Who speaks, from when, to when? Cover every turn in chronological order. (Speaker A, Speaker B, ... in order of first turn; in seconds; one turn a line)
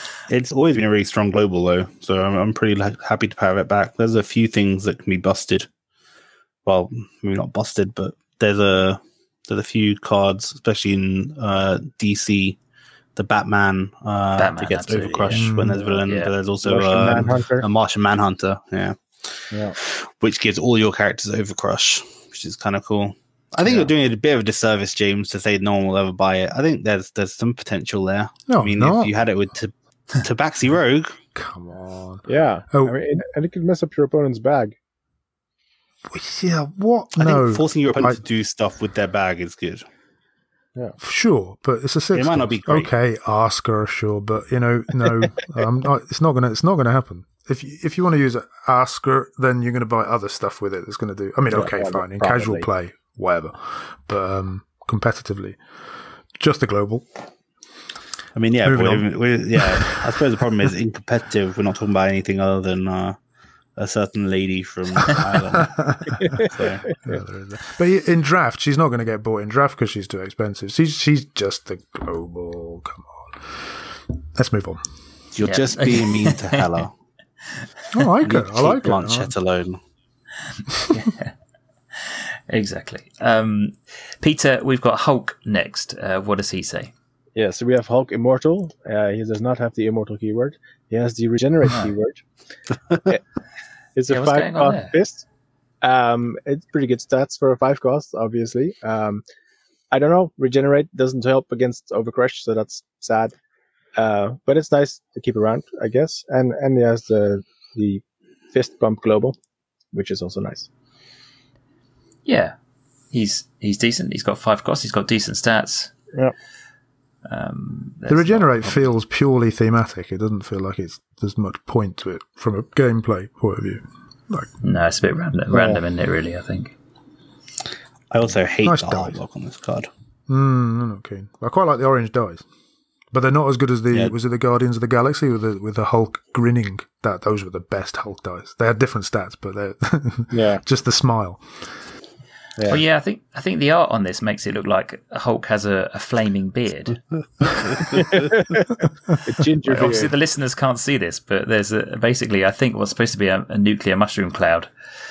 Speaker A: 0.3-5.7
Speaker A: 6.6-12.6
Speaker A: 13.2-31.2
Speaker B: 14.4-15.5
Speaker C: 15.3-15.8
Speaker B: 16.0-16.3
Speaker D: 16.6-17.6
Speaker B: 23.6-23.9
Speaker C: 28.5-29.1
Speaker C: 31.3-33.0
Speaker D: 32.3-34.7
Speaker C: 36.1-38.2
Speaker A: 37.1-39.8
Speaker C: 41.0-55.6
Speaker A: 42.1-42.9
Speaker D: 51.5-52.6
Speaker C: 56.4-57.1
Speaker A: 58.3-63.2
Speaker C: 58.6-60.1
Speaker A: 63.8-66.9
Speaker C: 65.5-66.5
Speaker C: 67.0-74.8
Speaker A: 75.3-76.9
Speaker B: 75.4-76.8
Speaker C: 77.9-79.3
Speaker A: 78.2-79.8
Speaker B: 80.9-81.3
Speaker B: 81.9-86.9
Speaker D: 87.3-92.2
Speaker D: 94.0-95.2
Speaker B: 94.1-94.9
Speaker D: 95.8-99.2
Speaker D: 99.9-103.3
Speaker D: 104.0-109.3
Speaker D: 109.9-110.7
Speaker B: 112.2-112.5
Speaker B: 113.1-115.9
Speaker B: 117.2-118.9
Speaker C: 118.1-124.5
Speaker B: 124.6-126.7
Speaker D: 125.5-125.8
Speaker A: 128.1-129.9
Speaker C: 128.6-129.2
Speaker C: 130.3-132.4
Speaker C: 133.1-141.6
Speaker D: 140.3-140.6
Speaker B: 142.7-147.0
Speaker A: 147.1-148.3
Speaker D: 148.1-148.6
Speaker D: 149.2-150.1
Speaker B: 149.6-154.7